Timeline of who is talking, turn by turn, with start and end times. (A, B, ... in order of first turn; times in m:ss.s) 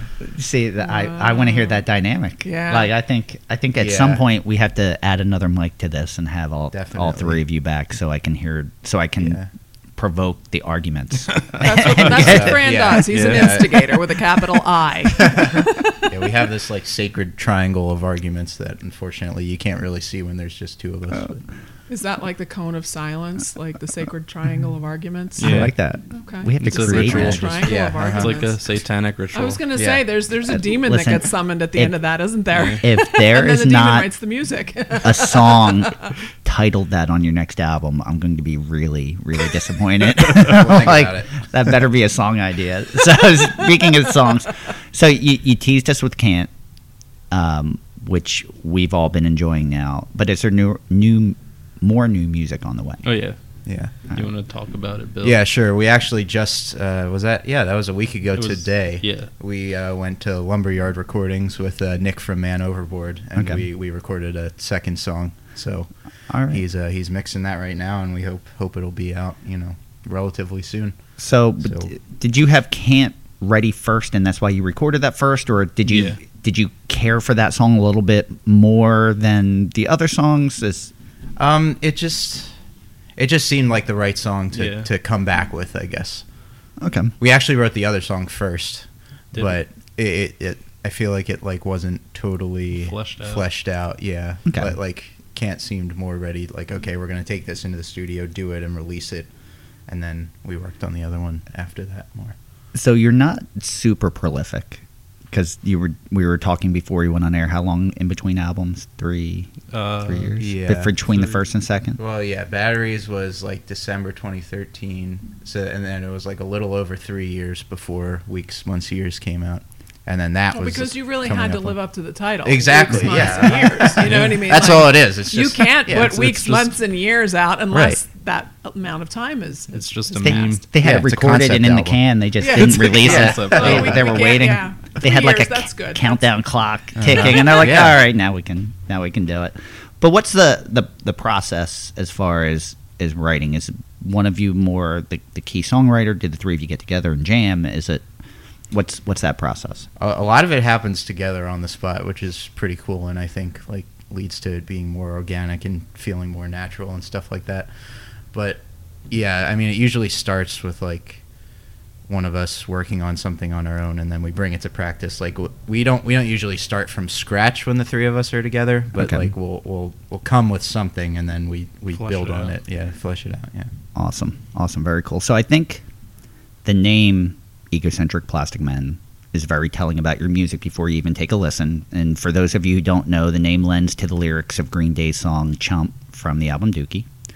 0:00.2-0:09.4 A
0:00.8-0:01.8 B
0:02.4-0:02.9 B
0:03.8-0:04.2 C
0:06.7-0:07.4 C
0:09.2-0:09.5 C
0:10.0-0:12.8 A
0:11.6-0:16.2 B
0:12.1-0:13.7 C
0:13.1-0:13.7 D
0:15.2-0:21.4 C
0:21.9-0:28.6 B
0:25.4-0:25.7 D
0:25.4-0:27.6 A
0:26.6-0:29.6 D
0:27.0-0:28.4 C
0:29.3-0:35.8 B
0:29.8-0:30.0 C
0:30.5-0:32.0 A
0:32.8-0:34.1 A
0:35.0-0:46.5 A
0:40.4-0:41.3 C
0:47.3-0:53.1 A
0:53.0-0:53.4 D
0:53.7-0:53.9 C
0:53.9-0:55.4 D
0:55.2-1:05.9 C
0:58.4-0:59.3 D
1:03.4-1:03.6 A
1:06.3-1:06.6 A
1:06.5-1:11.0 C
1:11.2-1:20.9 A
1:11.6-1:11.9 C
1:15.9-1:16.2 D
1:21.4-1:22.5 C
1:23.2-1:26.2 C
1:24.5-1:24.9 D
1:26.8-1:27.1 A
1:27.2-1:39.3 C
1:29.3-1:29.6 D
1:32.8-1:33.5 D
1:34.5-1:34.8 A
1:39.9-1:42.4 C
1:42.7-1:49.5 A
1:49.7-1:50.4 D
1:50.0-1:52.0 A
1:50.4-1:50.9 C
1:51.1-1:51.4 D
1:52.0-2:01.8 C
2:00.5-2:10.6 B
2:02.4-2:06.2 C
2:04.0-2:04.4 D
2:06.0-2:06.7 D
2:07.7-2:08.0 C
2:09.7-2:10.6 D
2:10.2-2:28.0 A
2:10.8-2:12.0 C
2:12.4-2:16.2 B
2:12.7-2:14.1 D
2:13.0-2:14.0 C
2:17.0-2:18.0 C
2:28.7-2:29.9 A
2:30.0-2:37.7 C
2:38.3-2:41.2 C
2:42.1-2:53.7 C
2:49.0-2:49.3 A
2:51.9-2:52.6 D
2:54.0-2:55.8 A
2:56.6-3:07.1 A